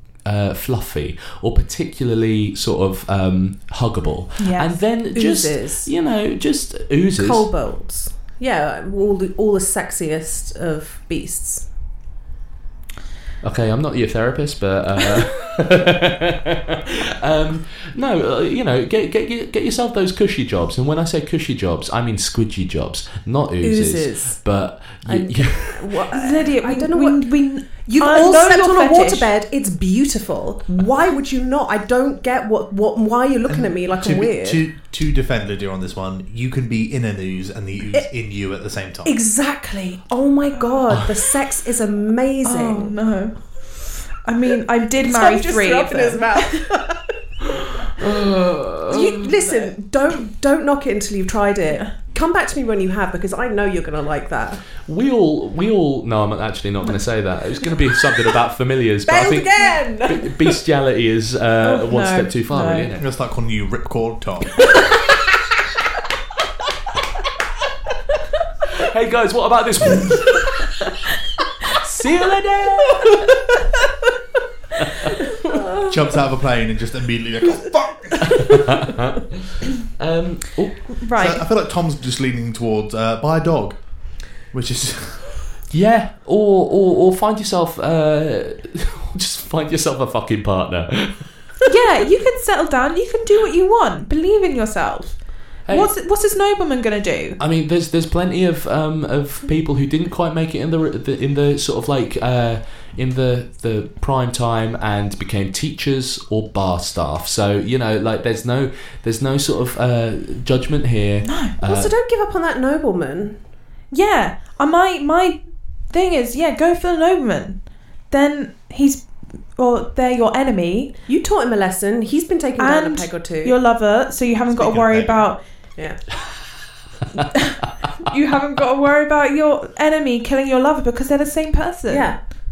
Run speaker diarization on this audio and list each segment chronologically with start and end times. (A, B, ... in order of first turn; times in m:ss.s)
0:00.2-0:07.5 A
0:04.4-0:04.8 B
0:05.1-0:05.9 C
0:07.2-0:11.6 C
0:13.4-0:16.5 A
0:17.2-0:26.0 A
0:23.6-0:24.4 C
0:25.0-0:34.6 C
0:26.1-0:29.3 B
0:33.5-0:39.2 D
0:39.0-0:43.0 C
0:40.5-0:40.8 B
0:42.4-0:46.6 B
0:45.0-0:47.0 C
0:48.0-0:49.5 A
0:48.9-0:54.6 C
0:54.8-1:03.0 A
0:59.0-1:00.5 C
1:01.6-1:02.9 B
1:03.0-1:04.6 D
1:08.8-1:10.8 A
1:11.7-1:13.2 A
1:14.9-1:15.1 A
1:15.8-1:18.6 D
1:19.8-1:20.9 A
1:21.0-1:21.4 B
1:21.1-1:23.8 D
1:24.4-1:25.3 D
1:25.7-1:31.4 A
1:31.7-1:37.4 B
1:35.6-1:35.9 A
1:37.4-1:51.9 A
1:51.2-1:51.6 B
1:51.6-1:53.4 C
1:53.9-2:01.0 B
2:01.1-2:03.6 C
2:02.6-2:05.4 B
2:04.5-2:05.3 D
2:05.8-2:06.0 C
2:08.0-2:12.2 B
2:11.9-2:12.2 C